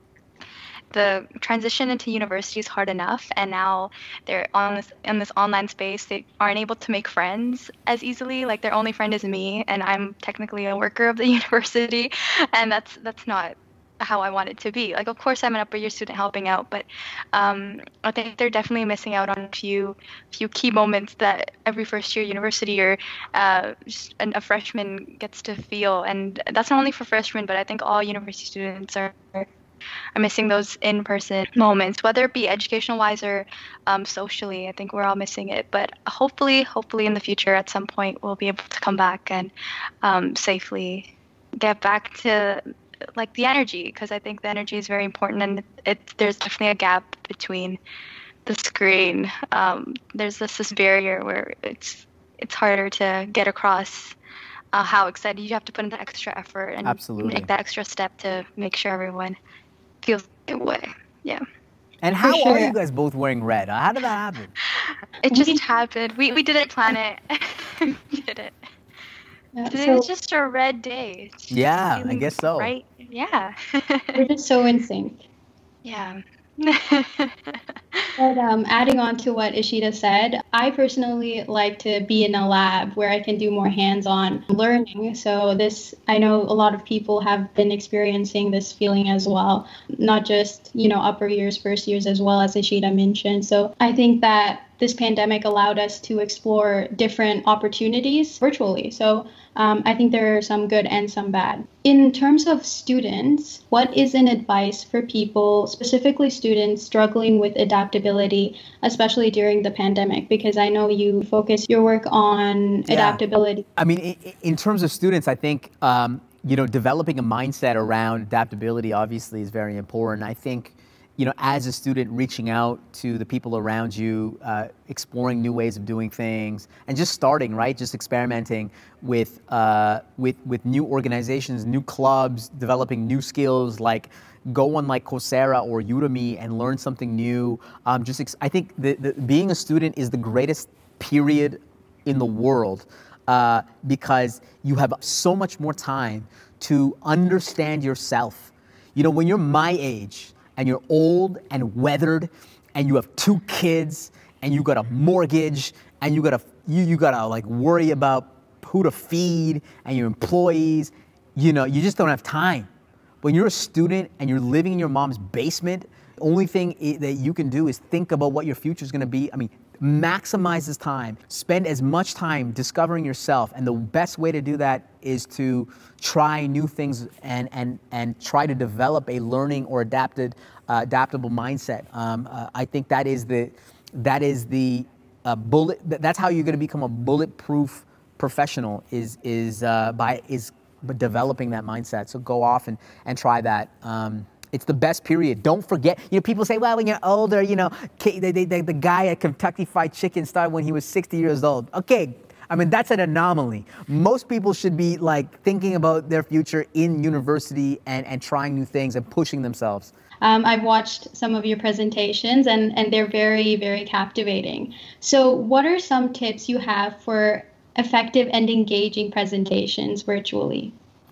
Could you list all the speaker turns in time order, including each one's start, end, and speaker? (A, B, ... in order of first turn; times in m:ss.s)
0:00.9-0:29.5 A
0:30.2-0:39.5 A
0:40.0-0:42.6 A
0:43.2-0:47.8 A
0:48.4-0:54.2 A
0:54.7-0:59.4 A
0:56.8-0:57.5 B
1:00.0-1:01.4 A
1:02.0-1:04.5 B
1:02.2-1:02.7 C
1:04.8-1:08.5 A
1:05.3-1:05.6 C
1:09.5-1:10.1 C
1:09.7-1:14.2 A
1:11.5-1:12.7 B
1:14.1-1:15.2 C
1:15.8-1:18.1 A
1:18.2-1:53.6 C
1:52.9-1:53.2 B
1:53.8-2:42.7 B
2:43.2-3:29.9 B
3:30.2-3:40.7 C